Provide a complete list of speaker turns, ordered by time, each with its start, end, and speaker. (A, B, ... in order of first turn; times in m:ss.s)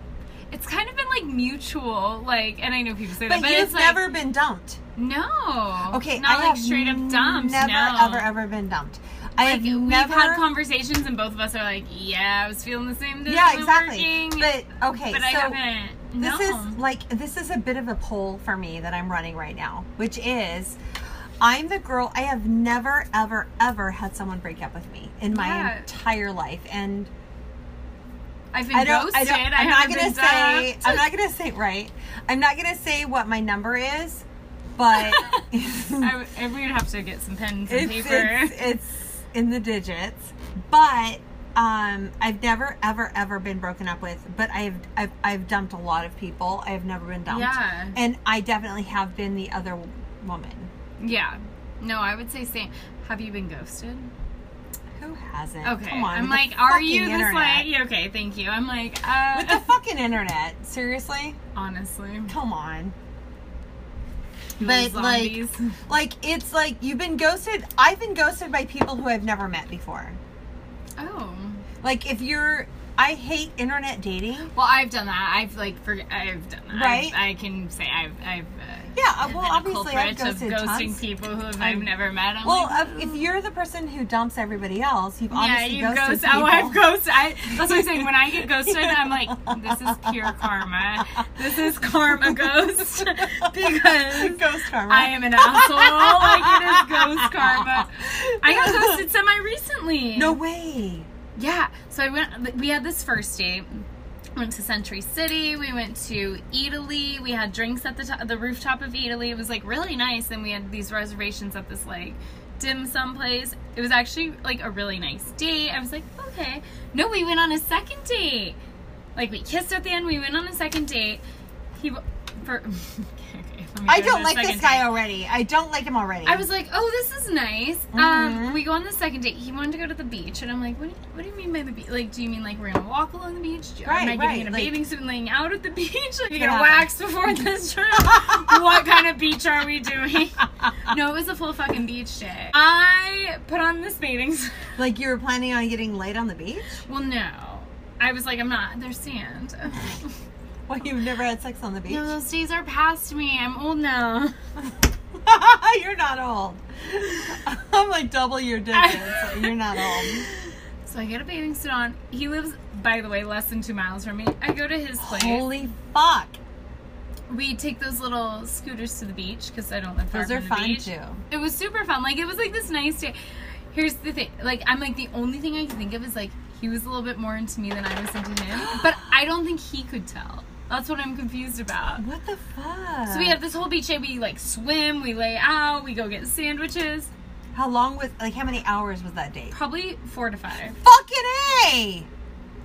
0:00.5-0:04.0 A
0:03.2-0:04.8 B
0:05.0-0:08.3 A
0:05.9-0:10.5 B
0:09.4-0:16.8 A
0:13.3-0:15.6 B
0:16.2-0:20.8 B
0:21.4-0:27.1 B
0:25.3-0:25.9 A
0:28.5-0:31.1 A
0:28.7-0:34.2 B
0:34.8-0:36.1 B
0:34.9-0:38.7 A
0:37.7-0:50.7 B
0:47.3-0:48.0 A
0:51.0-0:54.1 A
0:55.0-0:57.7 B
0:55.6-0:59.7 A
0:59.3-1:01.4 B
1:01.6-1:02.4 A
1:02.3-1:03.0 B
1:04.6-1:05.8 A
1:04.6-1:10.2 B
1:11.0-1:11.6 A
1:11.8-1:14.5 B
1:14.5-1:23.2 A
1:16.7-1:17.2 B
1:19.0-1:21.0 B
1:21.6-1:21.9 B
1:22.4-1:27.0 B
1:25.3-1:40.4 A
1:27.5-1:30.4 B
1:32.2-1:39.1 B
1:40.2-1:41.1 B
1:41.4-1:58.6 A
1:59.2-2:01.2 A
2:01.8-2:04.9 A
2:03.9-2:06.5 B
2:06.2-2:24.6 A
2:07.9-2:08.6 B
2:13.8-2:14.7 B
2:16.3-2:16.9 B
2:18.2-2:18.6 B
2:24.8-2:26.8 B
2:26.9-2:30.1 A
2:30.7-2:32.1 B
2:31.9-2:34.4 A
2:35.2-2:40.3 B
2:38.7-2:45.5 A
2:45.0-2:46.4 B
2:47.3-2:53.2 A
2:50.1-2:51.2 B
2:53.7-3:02.0 A
2:58.5-2:59.0 B
3:02.0-3:03.4 B
3:03.1-3:07.1 A
3:07.5-3:09.6 B
3:09.5-3:10.8 A
3:10.8-3:12.1 B